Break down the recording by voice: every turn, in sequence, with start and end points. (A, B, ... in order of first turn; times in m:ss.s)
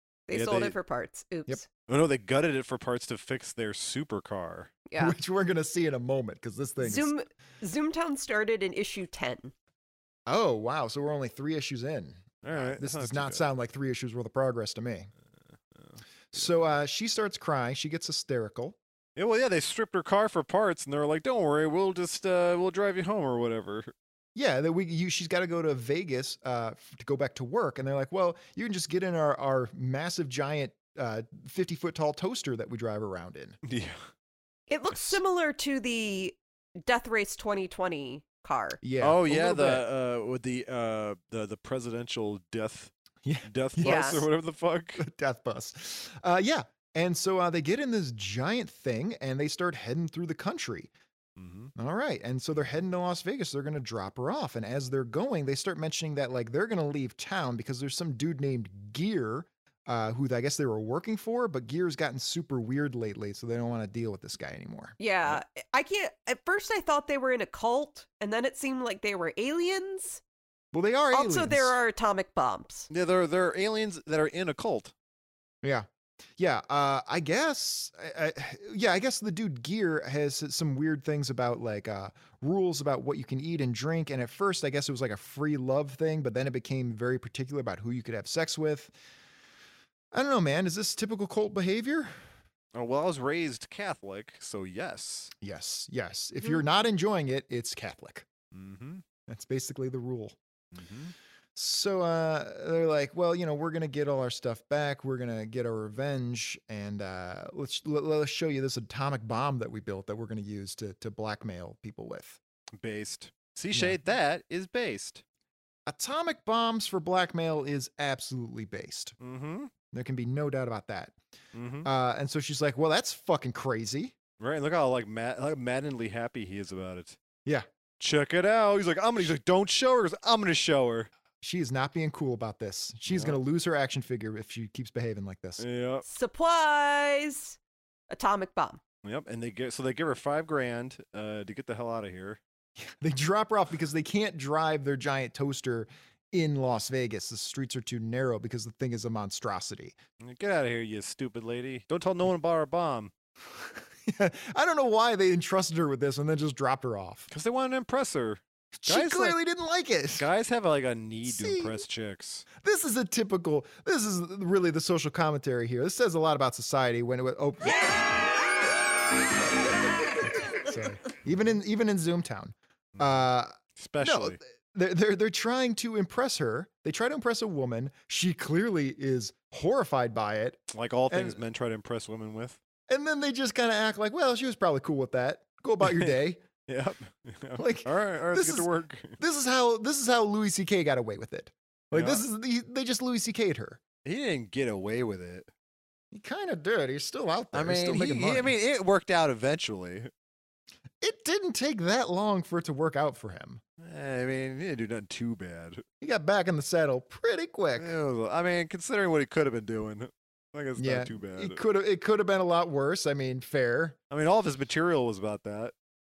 0:00.3-0:01.6 A
0:00.3-0:00.8 B
0:01.9-0:04.7 B
0:04.9-0:05.2 A
0:05.0-0:07.1 C
0:06.8-0:09.5 A
0:10.3-0:15.1 C
0:12.4-0:13.4 B
0:15.8-0:16.5 B
0:16.3-0:18.8 C
0:19.2-0:23.9 B
0:24.4-0:33.6 C
0:33.6-0:34.1 B
0:34.7-0:38.8 A
0:38.8-0:39.8 C
0:39.0-0:42.9 B
0:43.2-0:44.1 C
0:43.5-0:45.0 B
0:43.8-0:44.2 A
0:45.0-0:50.9 C
0:51.4-0:51.7 B
0:51.8-1:05.0 C
1:05.0-1:10.2 A
1:10.7-1:11.8 C
1:11.1-1:12.9 A
1:12.9-1:14.9 B
1:15.6-1:29.0 C
1:30.1-1:32.2 C
1:32.8-1:35.3 B
1:35.4-1:38.3 C
1:38.5-1:39.0 B
1:39.3-1:40.4 C
1:40.7-1:41.1 B
1:41.6-1:52.4 C
1:52.8-1:55.2 B
1:53.7-1:54.0 C
1:55.9-1:59.2 C
1:59.2-1:59.7 B
1:59.9-2:01.2 C
2:01.5-2:01.9 B
2:01.8-2:04.2 C
2:04.4-2:07.2 B
2:08.0-2:11.1 B
2:11.4-2:15.6 C
2:13.1-2:13.4 B
2:15.6-2:16.0 B
2:16.1-2:17.6 A
2:18.1-2:18.8 A
2:19.0-2:22.4 B
2:22.8-2:30.0 C
2:30.2-2:33.1 B
2:33.6-2:37.3 C
2:37.3-2:39.4 B
2:38.8-2:40.3 C
2:40.2-2:42.5 B
2:41.2-2:41.8 C
2:42.6-2:48.0 C
2:50.4-3:01.4 C
2:53.0-2:54.4 B
3:00.7-3:02.6 B
3:02.9-3:06.4 C
3:05.8-3:06.1 B
3:06.7-3:09.2 B
3:07.6-3:13.8 C
3:11.9-3:12.2 B
3:14.0-3:15.5 B
3:16.1-3:18.5 C
3:17.5-3:20.1 B
3:21.0-3:23.6 C
3:23.8-3:25.8 B
3:26.0-3:27.9 C
3:27.8-3:31.6 B
3:30.8-3:34.0 C
3:34.1-3:35.7 B